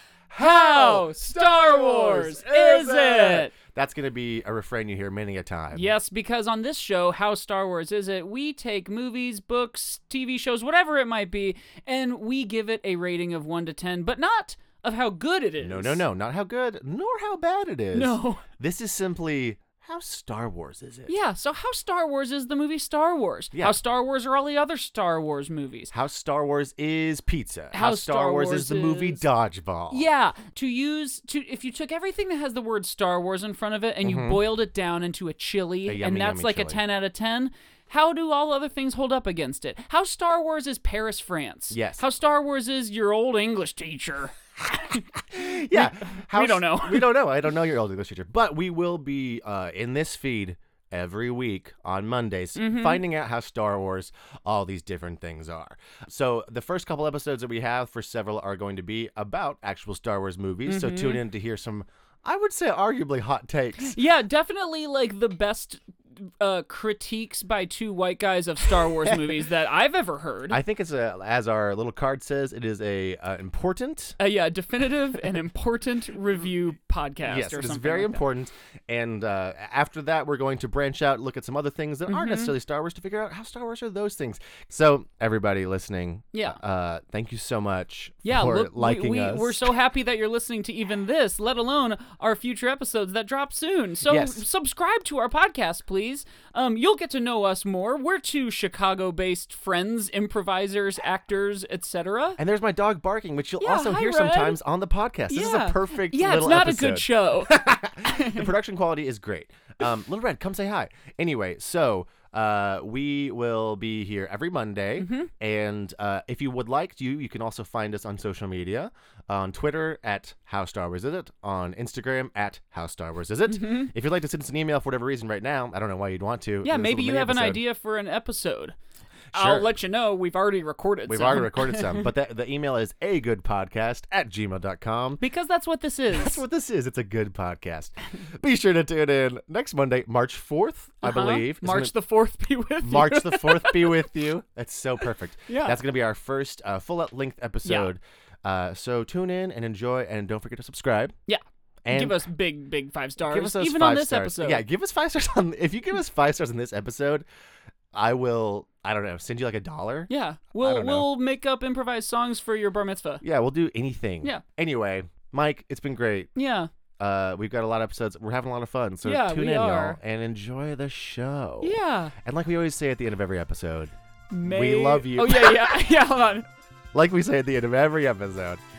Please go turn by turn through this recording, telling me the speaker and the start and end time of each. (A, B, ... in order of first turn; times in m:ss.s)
0:00.3-0:05.9 A
0:00.4-0:03.5 B
0:05.7-0:16.0 B
0:15.6-0:21.2 A
0:17.9-0:18.4 B
0:21.1-0:25.9 B
0:23.5-0:23.8 A
0:25.9-0:30.1 A
0:27.7-0:29.2 B
0:29.9-0:47.3 B
0:34.0-0:34.4 A
0:35.9-0:36.8 A
0:41.7-0:42.0 A
0:45.3-1:04.0 A
0:52.6-0:53.0 B
1:00.7-1:01.2 B
1:03.8-1:10.6 B
1:09.0-1:09.4 A
1:10.5-1:14.2 A
1:14.2-1:18.2 B
1:17.2-1:29.6 A
1:22.1-1:22.5 B
1:26.3-1:26.6 B
1:28.2-1:42.4 B
1:34.0-1:34.4 A
1:42.4-2:07.6 A
1:43.6-1:44.6 B
1:45.3-1:48.5 B
1:55.0-1:55.3 B
2:03.5-2:03.9 B
2:06.6-2:08.8 B
2:09.3-2:09.7 A
2:09.3-2:12.1 B
2:11.1-2:15.2 A
2:15.2-2:16.4 B
2:16.1-2:21.9 A
2:21.0-2:24.0 B
2:22.8-2:31.2 A
2:25.0-2:25.8 B
2:27.6-2:27.9 B
2:31.3-2:34.7 B
2:31.8-2:32.2 A
2:33.3-2:37.2 A
2:37.9-2:41.1 A
2:40.1-2:43.2 B
2:43.2-2:46.3 A
2:46.4-2:46.7 B
2:47.0-2:55.8 A
2:49.0-2:50.0 B
2:51.6-2:52.1 B
2:54.3-2:56.5 B
2:56.9-2:58.6 A